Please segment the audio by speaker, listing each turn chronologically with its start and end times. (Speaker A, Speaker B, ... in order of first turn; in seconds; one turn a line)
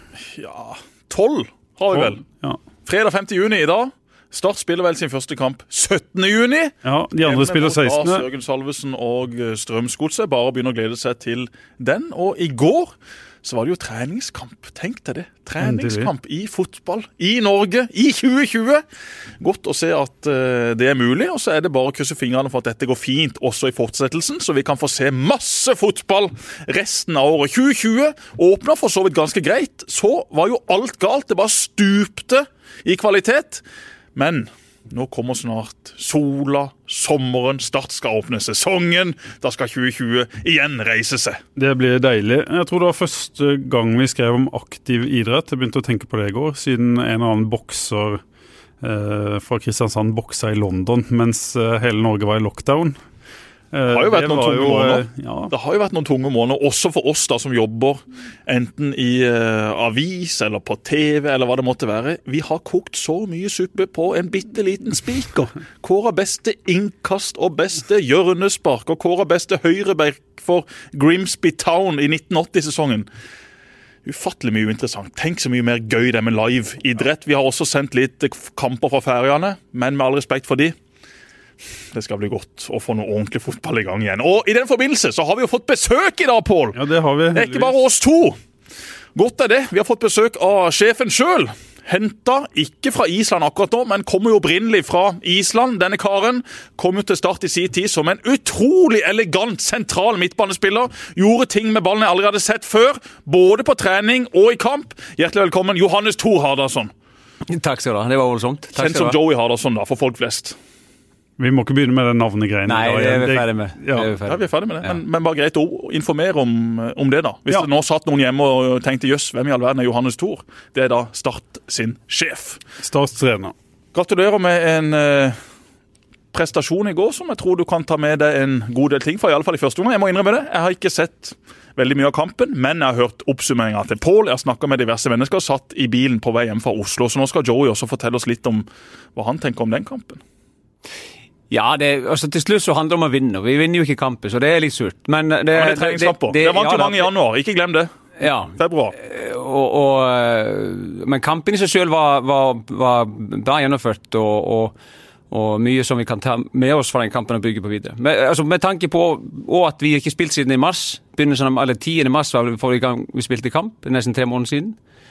Speaker A: 0.3-2.2
Speaker B: 1.9-2.6
Speaker A: 2.9-18.8
Speaker B: 6.8-8.2
Speaker B: 15.6-16.1
Speaker A: 19.4-33.6
Speaker A: 34.1-41.4
Speaker B: 41.6-48.2
Speaker B: 48.8-53.0
Speaker B: 53.7-55.5
Speaker A: 53.9-73.1
Speaker A: 74.0-80.7
Speaker A: 81.9-86.8
Speaker B: 86.7-87.8
Speaker A: 87.3-88.4
Speaker A: 89.1-106.9
Speaker C: 107.5-109.2
Speaker A: 108.8-110.6
Speaker B: 111.4-114.1
Speaker C: 112.7-115.0
Speaker A: 114.2-122.6
Speaker B: 122.8-123.5
Speaker A: 123.9-125.4
Speaker A: 126.3-140.2
Speaker C: 141.5-147.1
Speaker A: 145.5-147.9
Speaker C: 148.2-154.7
Speaker A: 148.5-148.9
Speaker C: 155.3-164.8